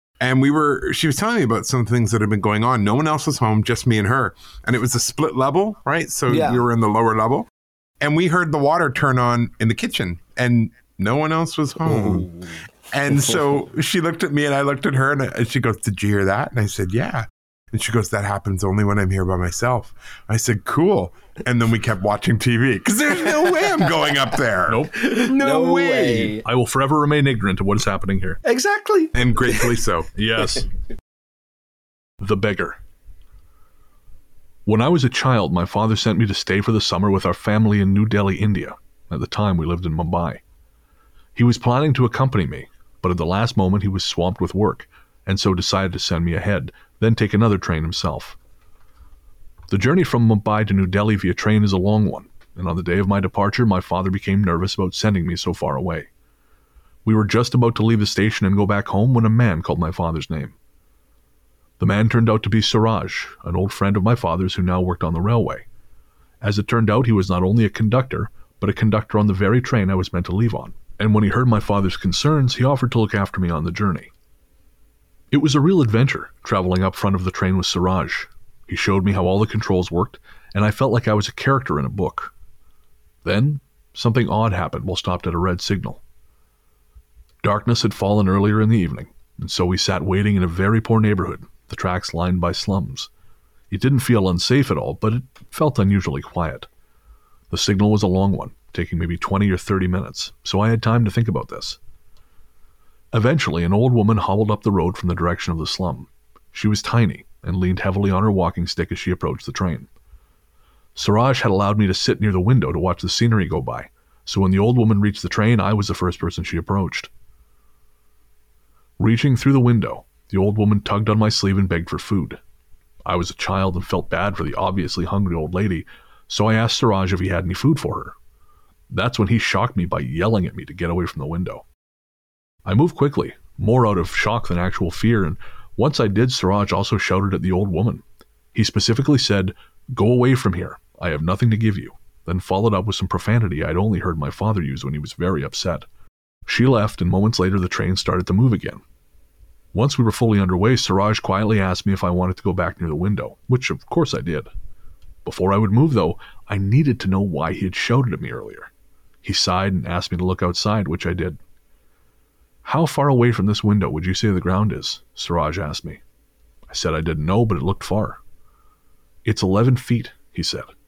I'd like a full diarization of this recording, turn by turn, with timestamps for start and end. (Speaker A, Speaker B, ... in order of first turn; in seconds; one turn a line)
Speaker A: 0.2-7.5
Speaker B: 6.3-6.6
Speaker A: 8.0-12.3
Speaker B: 11.8-12.6
Speaker A: 12.9-26.4
Speaker C: 24.7-24.9
Speaker B: 25.2-26.4
Speaker C: 26.4-28.4
Speaker B: 28.4-29.7
Speaker A: 29.1-30.1
Speaker C: 30.1-30.7
Speaker C: 32.2-32.8
Speaker C: 34.6-40.4
Speaker C: 41.4-48.4
Speaker C: 49.7-56.1
Speaker C: 57.0-60.5
Speaker C: 61.8-65.6
Speaker C: 66.4-74.1
Speaker C: 75.3-82.3
Speaker C: 83.2-86.0
Speaker C: 87.4-93.1
Speaker C: 93.7-96.7
Speaker C: 97.5-101.8
Speaker C: 103.1-109.9
Speaker C: 110.9-117.1
Speaker C: 119.0-122.4
Speaker C: 123.0-128.1
Speaker C: 128.9-131.6
Speaker C: 132.7-138.0
Speaker C: 138.5-145.8
Speaker C: 146.5-148.8
Speaker C: 149.7-154.5
Speaker C: 155.2-158.7
Speaker C: 159.2-161.4
Speaker C: 162.6-166.0
Speaker C: 166.7-168.2
Speaker C: 169.2-170.7